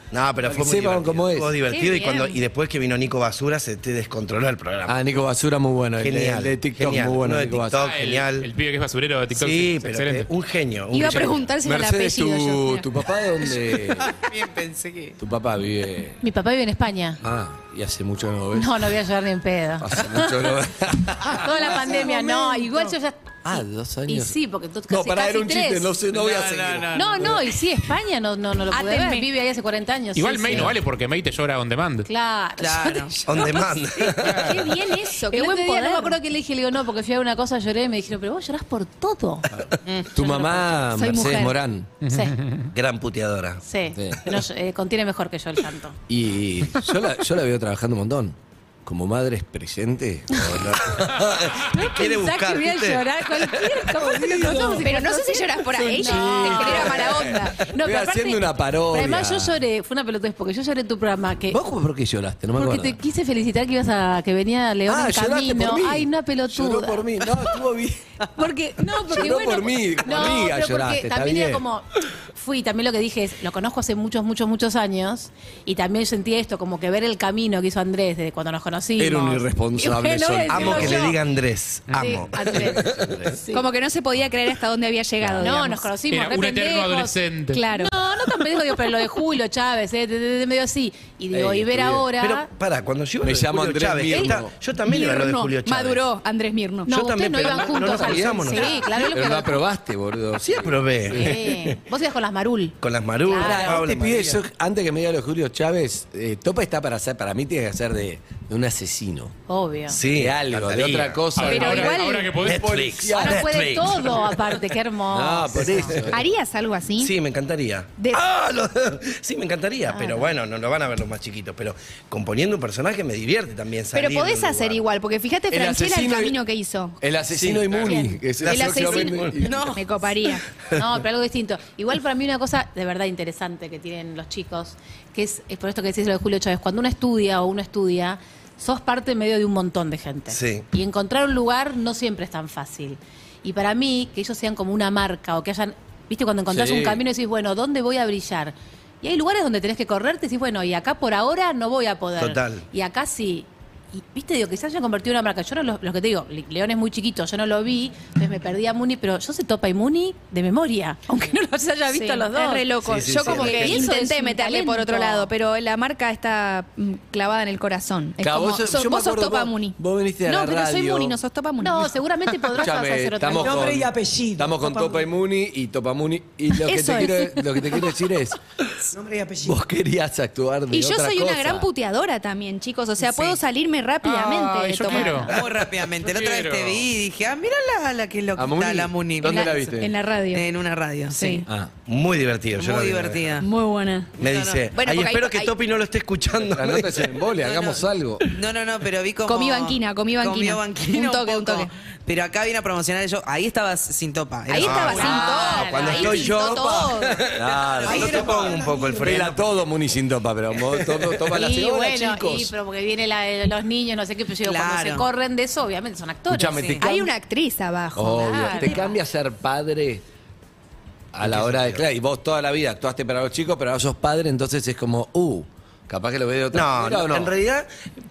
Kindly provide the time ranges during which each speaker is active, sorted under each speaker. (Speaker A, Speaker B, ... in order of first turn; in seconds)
Speaker A: 0.1-5.0, 6.0-8.5, 9.3-11.4, 33.3-34.6, 42.7-43.6, 50.7-53.9, 80.5-83.4, 92.2-96.0, 96.9-98.9, 100.4-101.8, 102.8-104.4, 109.9-111.5, 112.4-114.3, 115.7-116.2, 117.0-124.8, 127.3-129.4, 140.3-140.6, 152.2-152.6, 162.8-163.8, 191.9-193.4, 194.2-197.2, 204.6-209.5, 210.7-211.2, 221.2-221.8, 226.5-227.7
Speaker B: 0.4-1.5, 4.8-7.9, 11.6-14.1, 15.2-16.2, 17.2-18.9, 19.8-21.8, 23.4-24.4, 24.9-27.4, 39.5-41.9, 43.9-44.2, 46.1-51.5, 54.1-54.8, 55.8-59.6, 61.5-63.0, 64.9-71.6, 79.0-81.1, 82.5-83.1, 85.2-85.5, 91.3-92.1, 93.2-94.5, 97.4-101.4, 103.3-109.3, 110.1-113.6, 115.1-116.3, 125.5-126.3, 127.0-129.8, 146.5-147.0, 168.2-171.2, 172.5-178.4, 179.4-181.7, 188.3-189.9, 191.4-191.7, 196.5-198.2, 207.3-208.4, 209.0-212.5, 216.3-216.8, 217.9-220.0, 221.1-227.3
Speaker C: 1.7-2.4, 10.9-12.9, 28.7-29.3, 34.2-36.2, 40.9-41.5, 54.8-57.6, 83.5-85.9, 87.5-87.9, 94.1-96.9, 111.4-112.3, 116.1-117.1, 123.9-127.0, 128.4-130.4, 161.9-171.9, 176.6-177.4, 180.7-185.3, 189.2-190.5, 191.1-191.5, 193.4-194.1, 194.7-195.6, 199.2-201.7, 204.5-207.2, 216.8-218.9
Speaker D: 7.8-10.3, 30.1-32.1, 34.2-34.6, 42.0-42.7, 81.9-82.2, 86.1-87.6, 111.3-112.7, 184.0-185.3, 186.0-186.8
Speaker E: 13.6-15.2, 26.1-27.3, 32.6-33.5, 39.9-40.5, 129.4-129.8, 183.0-183.4, 184.9-189.7, 190.3-191.4, 192.6-193.4, 194.2-194.7, 197.4-206.4, 207.9-208.6, 214.4-215.1
Speaker F: 16.2-17.2, 18.5-20.4, 21.2-25.9, 26.9-30.8, 32.1-33.5, 35.3-39.5, 42.1-42.4, 43.6-46.0, 51.7-61.6, 62.5-67.3, 68.3-81.2, 82.0-83.6, 85.4-87.2, 87.7-92.5, 96.9-99.6, 101.1-103.8, 109.5-110.0, 113.1-115.9, 119.9-120.3, 127.8-128.2, 130.7-165.3, 171.6-173.7, 204.9-206.2, 211.3-217.0, 218.1-218.8
Speaker G: 21.5-22.9, 173.4-175.1, 178.9-179.6, 208.0-209.0